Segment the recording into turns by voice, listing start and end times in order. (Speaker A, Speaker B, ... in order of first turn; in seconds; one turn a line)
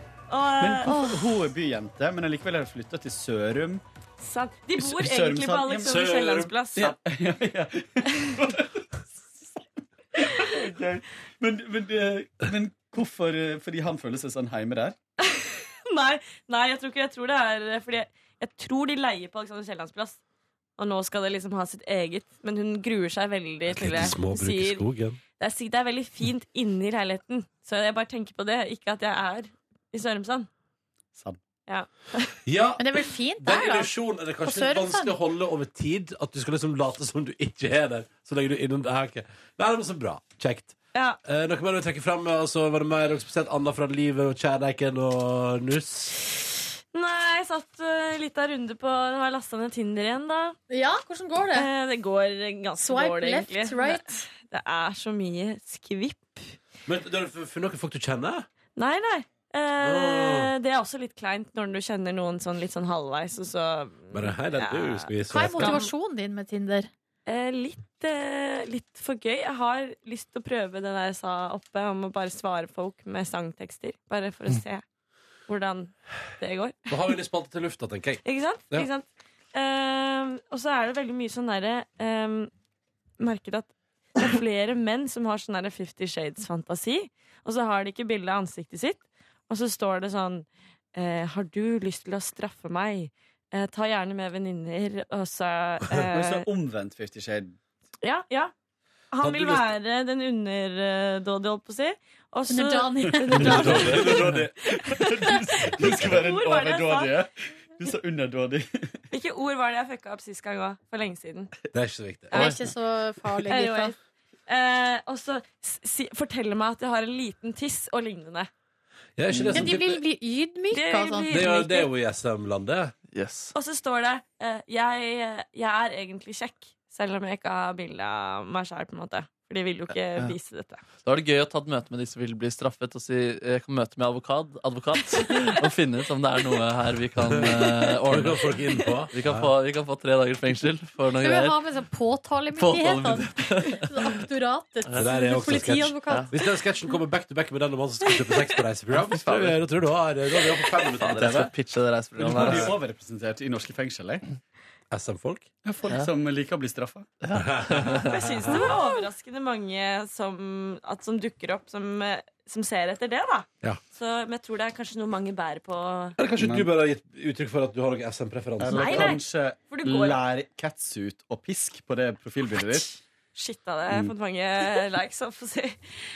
Speaker A: 0.3-0.9
Speaker B: 0.6-3.8
Speaker C: 0.8-1.2
Speaker A: 4.2-7.0
Speaker B: 4.8-8.8
Speaker D: 5.9-6.5
Speaker B: 10.2-14.9
Speaker A: 15.2-20.2
Speaker A: 20.8-24.9
Speaker D: 23.7-25.2
Speaker A: 25.4-30.5
Speaker A: 31.7-32.4
Speaker D: 32.5-32.8
Speaker C: 32.8-35.1
Speaker D: 33.4-46.1
Speaker A: 46.9-50.6
Speaker C: 50.7-51.7
Speaker A: 51.5-56.5
Speaker C: 52.8-54.2
Speaker D: 56.9-58.5
Speaker A: 58.8-65.9
Speaker D: 59.8-60.5
Speaker D: 64.1-65.8
Speaker C: 65.3-66.9
Speaker A: 67.2-74.8
Speaker A: 75.5-76.9
Speaker D: 76.9-78.9
Speaker A: 78.2-82.5
Speaker A: 83.2-96.5
Speaker B: 96.1-97.5
Speaker A: 98.0-98.5
Speaker A: 99.1-107.2
Speaker D: 99.2-99.7
Speaker C: 102.5-103.7
Speaker B: 103.3-109.0
Speaker D: 103.3-104.5
Speaker A: 109.1-111.5
Speaker D: 111.7-112.3
Speaker A: 112.3-112.6
Speaker C: 112.3-113.9
Speaker A: 113.4-114.0
Speaker A: 114.5-118.5
Speaker D: 119.2-120.0
Speaker B: 119.3-119.6
Speaker C: 119.5-121.5
Speaker A: 120.7-121.9
Speaker D: 121.3-122.9
Speaker E: 123.1-123.5
Speaker A: 123.5-130.8
Speaker E: 129.9-130.3
Speaker E: 131.0-141.6
Speaker D: 137.2-139.5
Speaker C: 141.2-146.3
Speaker E: 142.6-143.9
Speaker D: 144.9-151.5
Speaker E: 149.0-149.6
Speaker E: 150.5-152.8
Speaker B: 152.2-154.2
Speaker D: 152.3-152.7
Speaker D: 154.9-155.5
Speaker B: 155.6-157.1
Speaker E: 157.2-158.1
Speaker D: 157.3-158.7
Speaker A: 158.0-166.2
Speaker D: 166.2-169.2
Speaker B: 166.3-166.7
Speaker B: 168.6-172.9
Speaker A: 168.6-170.2
Speaker A: 173.3-175.8